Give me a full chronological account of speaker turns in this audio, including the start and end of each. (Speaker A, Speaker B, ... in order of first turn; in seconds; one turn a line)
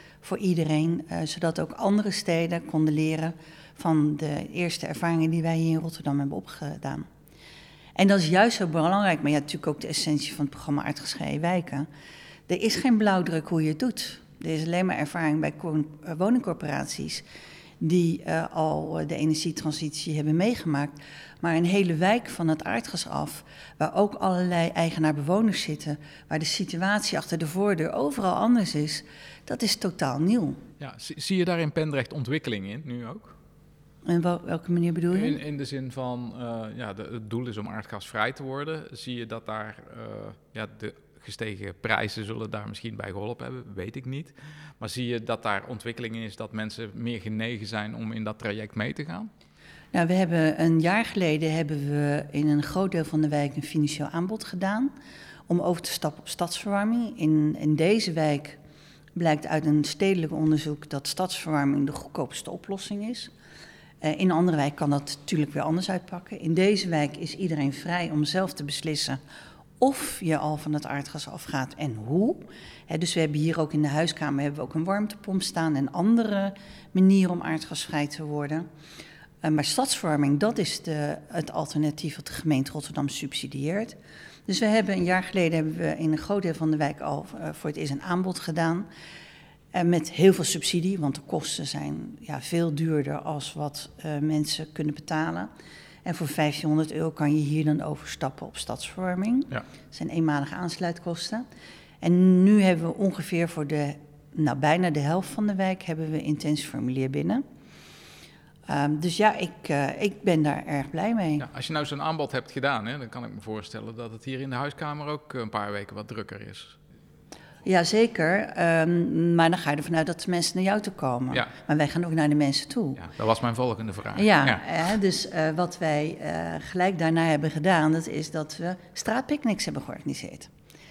Speaker A: 0.2-7.1
Speaker A: 8.0-11.9
Speaker A: 12.5-17.2
Speaker A: 17.8-30.6
Speaker B: 30.8-33.4
Speaker A: 34.1-35.4
Speaker B: 35.1-49.3
Speaker A: 49.9-54.9
Speaker A: 55.5-58.6
Speaker A: 59.2-63.3
Speaker A: 64.0-69.2
Speaker A: 69.8-78.7
Speaker A: 79.4-88.9
Speaker A: 89.7-95.5
Speaker A: 96.0-101.5
Speaker A: 102.0-107.4
Speaker A: 108.7-111.5
Speaker B: 111.4-116.8
Speaker A: 117.7-123.0
Speaker B: 123.0-124.6
Speaker A: 124.2-130.5